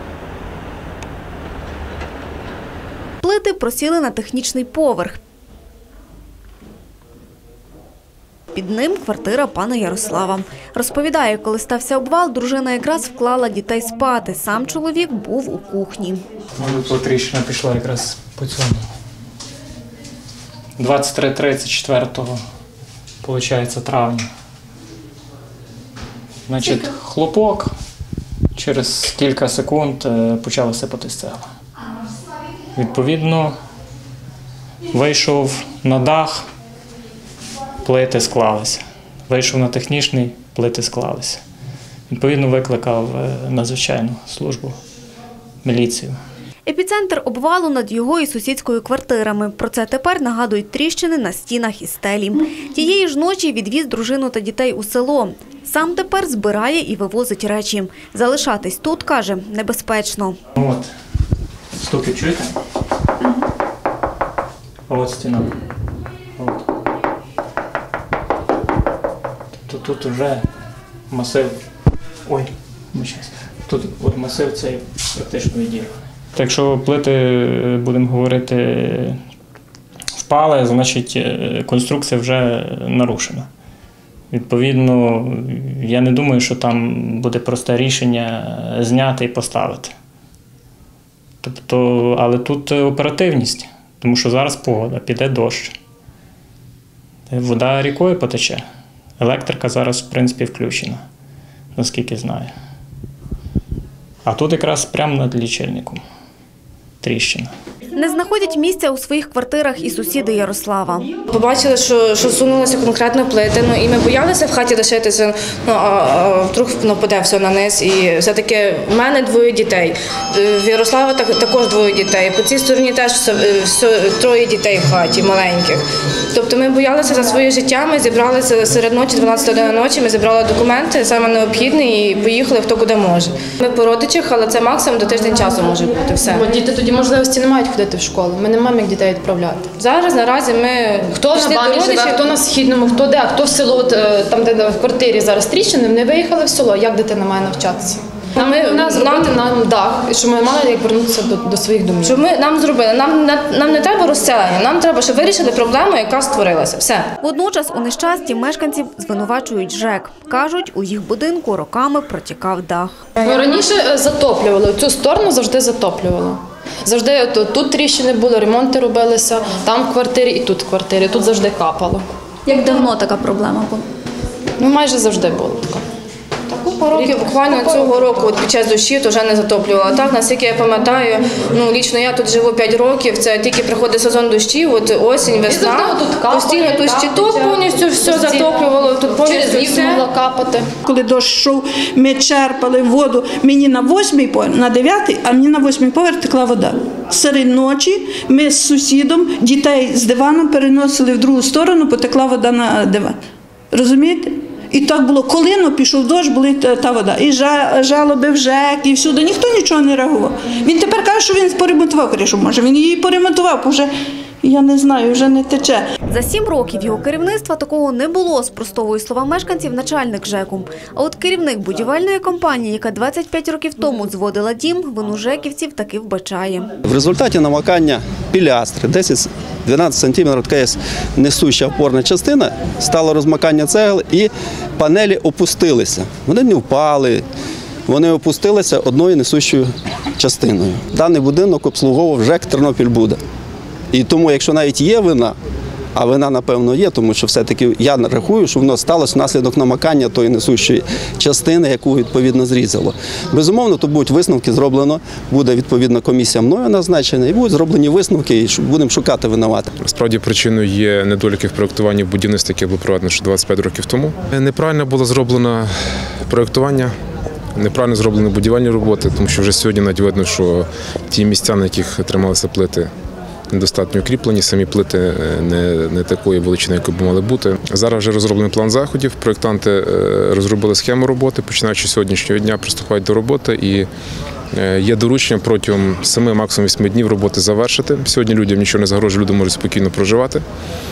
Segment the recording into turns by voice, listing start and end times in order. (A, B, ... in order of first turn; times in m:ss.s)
0:03.2-0:05.2 A
0:08.5-0:16.2 A
0:16.6-0:18.8 B
0:20.8-0:22.4 B
0:23.2-0:24.2 B
0:26.5-0:27.7 B
0:28.5-0:31.4 B
0:32.7-0:33.6 B
0:34.9-0:36.5 B
0:37.8-0:41.4 B
0:42.1-0:44.8 B
0:45.6-0:46.2 B
0:46.6-1:00.4 A
1:00.6-1:00.9 B
1:01.8-1:02.5 B
1:04.9-1:05.5 B
1:06.4-1:06.6 B
1:09.7-1:10.4 B
1:11.1-1:11.6 B
1:12.2-1:19.2 B
1:20.2-1:23.5 B
1:24.3-1:29.9 B
1:31.4-1:35.8 B
1:37.3-1:38.6 B
1:39.2-1:41.0 B
1:41.7-1:42.5 B
1:44.2-1:46.0 B
1:47.0-1:47.5 B
1:47.9-1:51.1 A
1:51.3-2:16.5 C
2:16.3-2:19.7 D
2:19.7-2:22.3 C
2:21.2-2:32.2 D
2:28.4-2:29.3 C
2:32.0-2:37.1 C
2:37.2-2:43.1 A
2:43.2-2:52.1 D
2:52.5-2:53.8 A
2:54.6-2:55.8 D
2:56.5-3:10.1 C
2:56.9-2:58.1 D
3:05.5-3:08.6 D
3:09.2-3:10.7 D
3:10.8-3:23.2 E
3:23.7-3:33.9 E
3:34.4-3:35.8 E
3:36.1-3:46.7 A
3:46.8-3:57.2 F
3:57.9-4:03.2 F
4:03.9-4:05.3 F
4:05.9-4:19.7 F
4:19.8-4:25.7 G
4:26.3-4:26.9 G
4:27.6-4:32.9 G
4:33.5-4:43.9 G
4:44.5-4:50.4 G